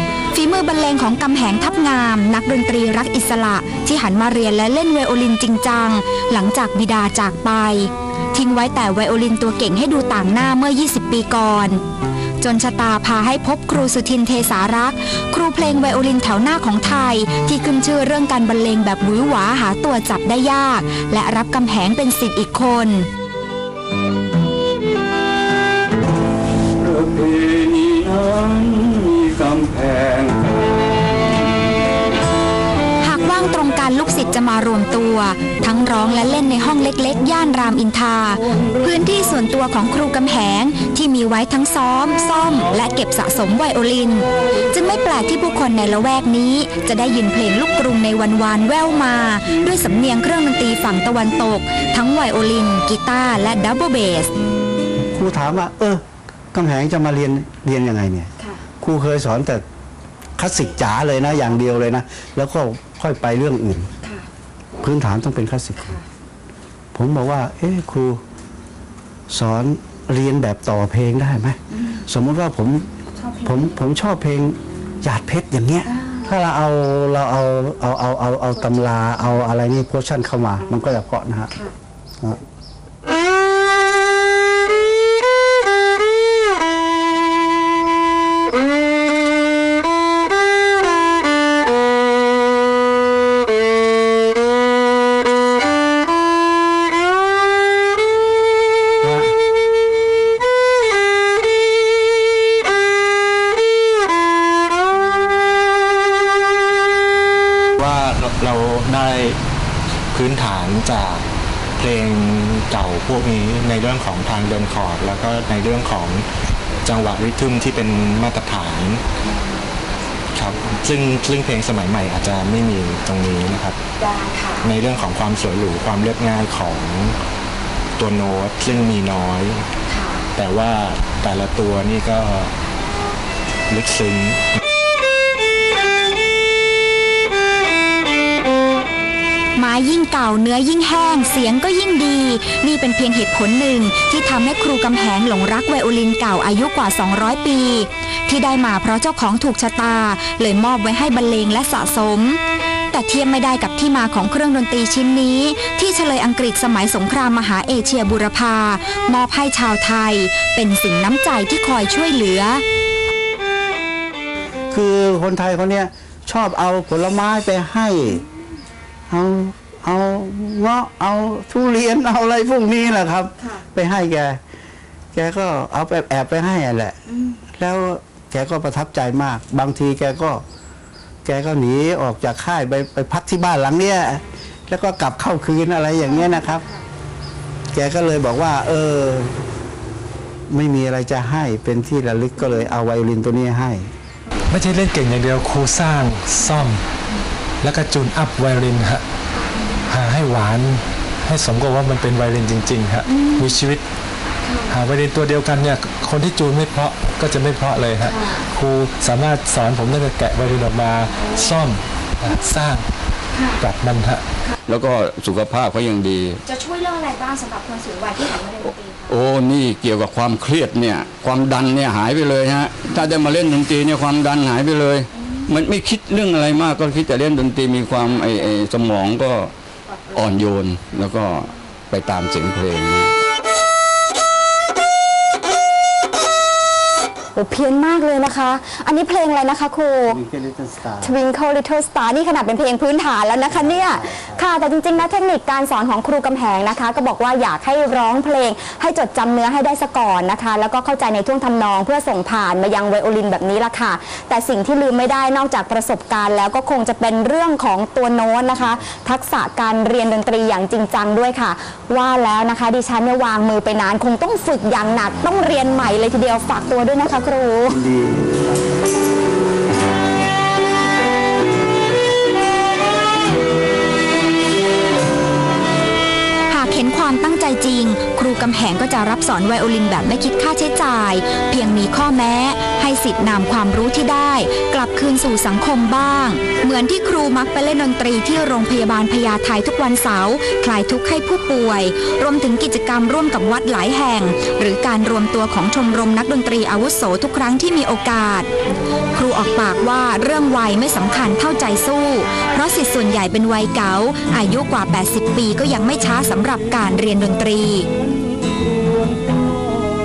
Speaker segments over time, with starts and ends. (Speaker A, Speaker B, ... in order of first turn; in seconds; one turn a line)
Speaker A: 0.3-11.8
Speaker A: 12.4-23.1
Speaker B: 26.8-30.6
Speaker A: 33.0-54.3
Speaker C: 55.1-56.0
Speaker C: 56.5-59.6
Speaker C: 60.4-63.9
Speaker C: 64.8-66.0
Speaker C: 66.9-68.2
Speaker C: 69.3-72.8
Speaker A: 73.2-73.5
Speaker C: 73.4-81.5
Speaker A: 75.9-76.2
Speaker D: 107.8-109.4
Speaker D: 110.1-111.3
Speaker D: 111.8-116.2
Speaker D: 116.8-119.0
Speaker D: 120.3-123.8
Speaker A: 124.0-124.7
Speaker D: 124.6-127.2
Speaker D: 128.0-129.7
Speaker A: 129.9-130.2
Speaker D: 130.3-132.5
Speaker D: 133.7-134.6
Speaker A: 139.6-152.4
Speaker A: 152.9-162.6
Speaker C: 164.7-168.2
Speaker C: 169.1-174.4
Speaker C: 175.1-177.0
Speaker C: 177.6-180.4
Speaker C: 181.2-186.7
Speaker C: 187.7-189.4
Speaker C: 190.5-193.9
Speaker E: 194.5-196.8
Speaker E: 197.6-199.0
Speaker E: 199.9-203.8
Speaker E: 204.7-212.8
Speaker E: 213.6-214.2
Speaker B: 214.7-216.4
Speaker A: 216.5-219.1
Speaker B: 219.1-229.5
Speaker B: 230.1-233.2
Speaker F: 237.3-240.2
Speaker C: 240.0-241.2
Speaker F: 241.0-267.8
Speaker C: 243.5-244.4
Speaker C: 267.7-268.3
Speaker A: 276.5-298.5
Speaker A: 299.1-307.9
Speaker B: 308.9-309.1